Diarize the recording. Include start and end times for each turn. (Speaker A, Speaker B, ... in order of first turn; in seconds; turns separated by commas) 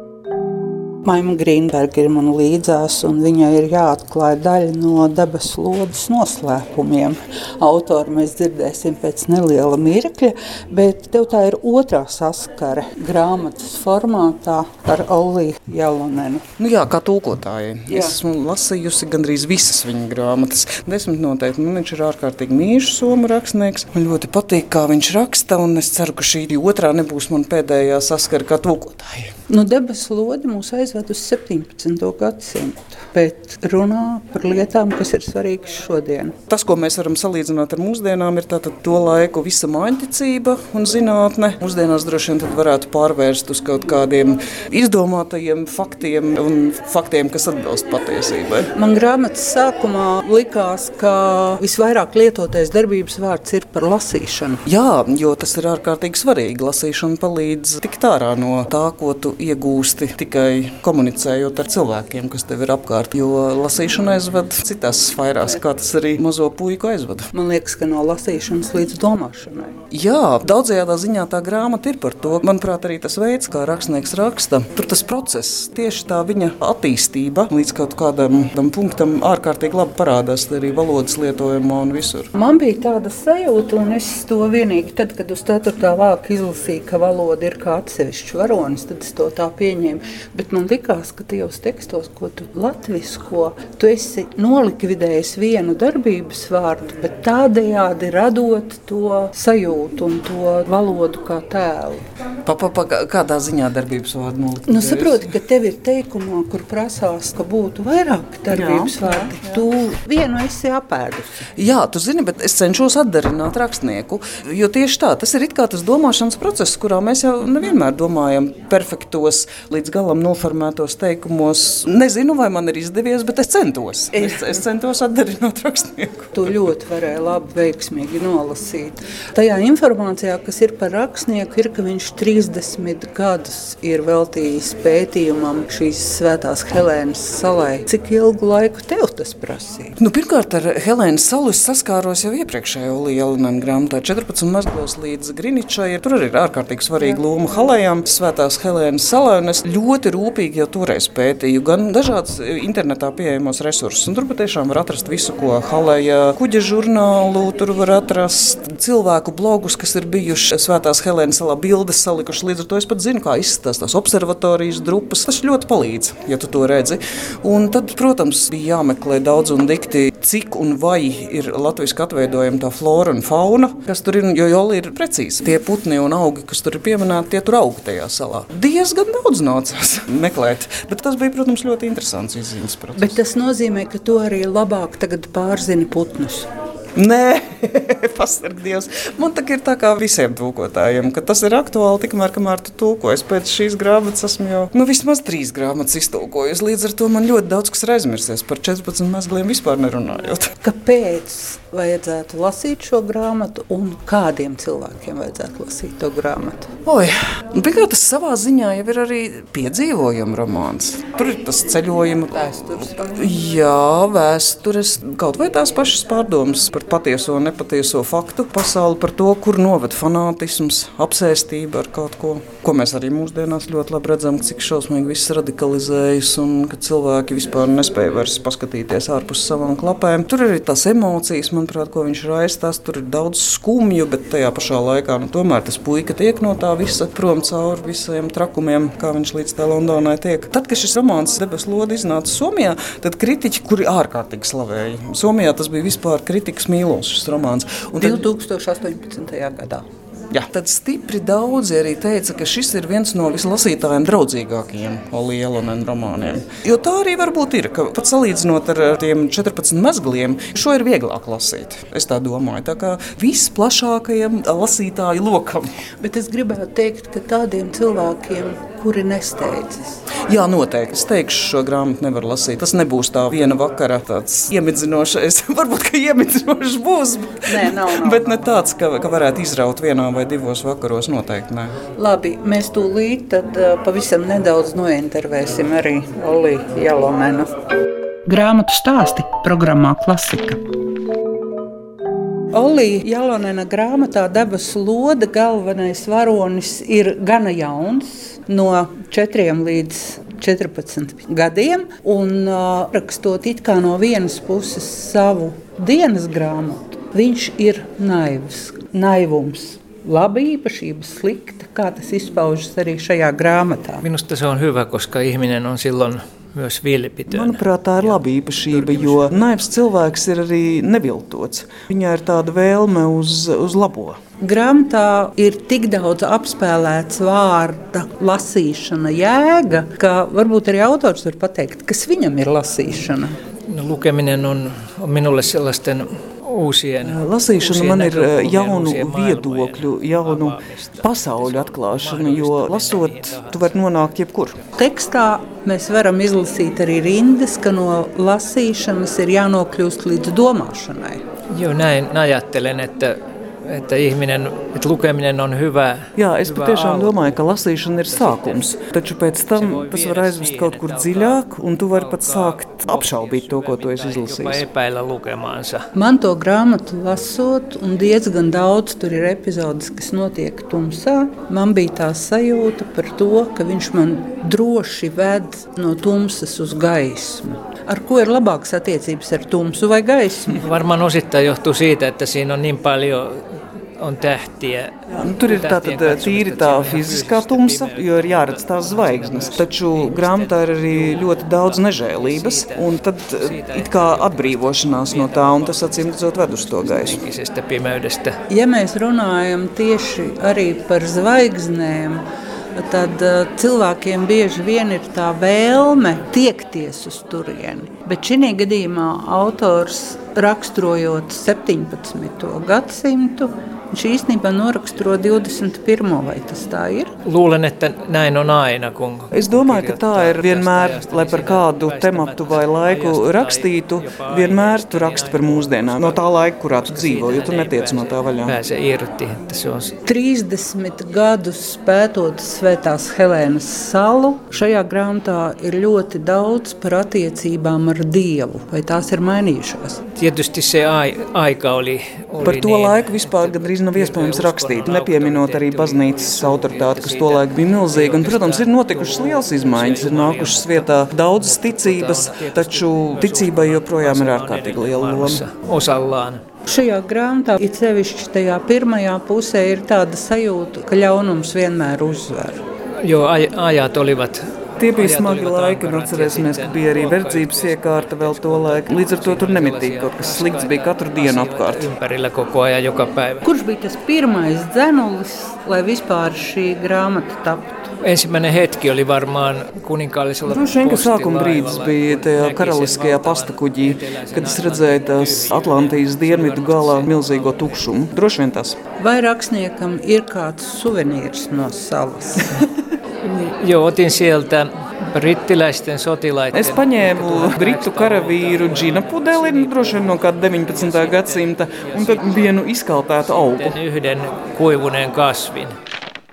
Speaker A: 1.0-16.4, Speaker B: 16.6-29.3, Speaker A: 17.9-18.1, Speaker A: 29.5-36.4, Speaker B: 36.5-48.7, Speaker A: 48.7-54.6, Speaker B: 54.6-67.3, Speaker A: 67.3-69.7, Speaker B: 69.9-82.3, Speaker A: 82.3-102.1, Speaker B: 102.5-105.3, Speaker A: 104.7-111.5, Speaker B: 108.5-109.6, Speaker B: 111.6-126.5, Speaker A: 126.3-139.9, Speaker B: 140.0-183.2, Speaker A: 182.9-186.5, Speaker B: 186.9-200.5, Speaker A: 200.6-206.7, Speaker B: 206.8-248.2, Speaker A: 212.3-213.3, Speaker A: 248.0-249.8, Speaker B: 250.3-265.7, Speaker A: 266.0-270.0, Speaker B: 270.3-281.7, Speaker A: 277.4-278.5, Speaker A: 281.9-287.5, Speaker A: 288.2-290.6, Speaker A: 292.5-314.0, Speaker C: 314.0-318.2, Speaker B: 317.3-324.2, Speaker C: 318.7-319.3, Speaker A: 324.4-333.4, Speaker C: 333.7-343.7, Speaker B: 337.0-344.6, Speaker A: 344.8-351.2, Speaker C: 351.5-357.4, Speaker B: 356.1-364.6, Speaker C: 358.0-358.6, Speaker C: 359.5-361.4, Speaker C: 361.9-365.9, Speaker A: 365.9-380.6, Speaker C: 380.6-392.8, Speaker B: 385.1-397.2, Speaker C: 393.4-398.4, Speaker A: 398.5-402.2, Speaker A: 402.7-417.1, Speaker C: 417.2-426.2, Speaker B: 419.3-428.6, Speaker C: 426.8-429.9, Speaker A: 430.0-440.0, Speaker C: 440.2-456.4, Speaker B: 442.4-455.4, Speaker A: 456.6-462.6, Speaker C: 463.0-473.4, Speaker B: 464.8-471.9, Speaker A: 473.4-477.9, Speaker C: 478.0-487.8, Speaker B: 480.4-488.8, Speaker A: 489.0-492.6, Speaker C: 493.2-502.5, Speaker B: 496.5-503.8, Speaker C: 503.4-505.8